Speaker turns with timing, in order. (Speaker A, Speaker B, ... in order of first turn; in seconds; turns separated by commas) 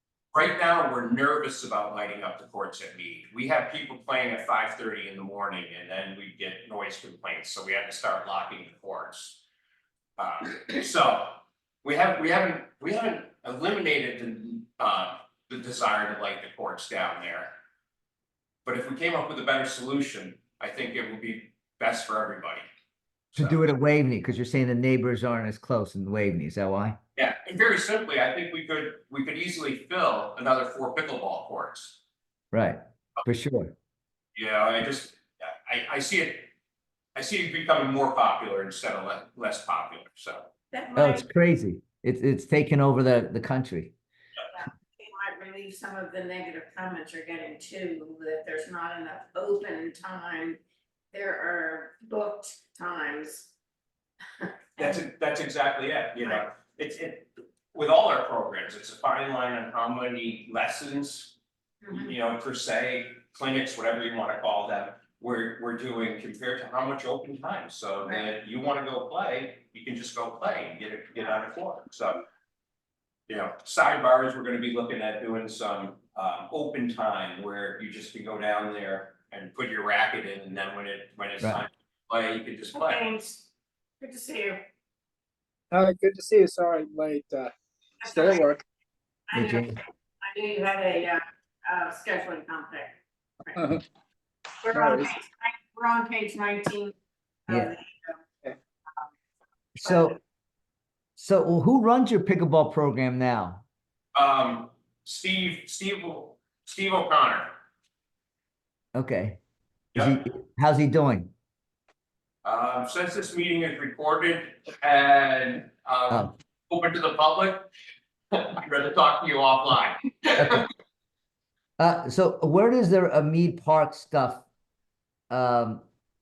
Speaker A: 0.3-9.4, Speaker A: 10.2-17.5, Speaker A: 18.6-22.7, Speaker A: 23.3-23.6, Speaker B: 23.4-27.0, Speaker A: 27.2-32.0, Speaker B: 32.5-33.7, Speaker A: 34.4-36.5, Speaker A: 37.1-40.5, Speaker C: 40.7-41.3, Speaker B: 41.0-43.9, Speaker C: 44.5-50.6, Speaker C: 51.1-53.5, Speaker C: 54.4-55.0, Speaker A: 54.8-61.4, Speaker C: 61.8-62.1, Speaker A: 61.9-72.2, Speaker A: 73.3-83.1, Speaker C: 82.8-83.5, Speaker C: 84.0-84.6, Speaker D: 85.7-88.6, Speaker C: 88.0-88.5, Speaker C: 89.3-93.7, Speaker B: 89.3-89.8, Speaker D: 93.5-93.8, Speaker C: 94.6-97.0, Speaker D: 94.7-95.1, Speaker C: 97.5-98.2, Speaker B: 99.8-100.2, Speaker C: 99.8-100.1, Speaker B: 101.2-103.6, Speaker A: 104.2-107.5, Speaker B: 109.0-109.4, Speaker B: 110.0-111.3, Speaker A: 112.4-117.7, Speaker A: 118.3-120.7, Speaker B: 120.4-120.7, Speaker B: 121.8-124.5, Speaker B: 125.3-125.8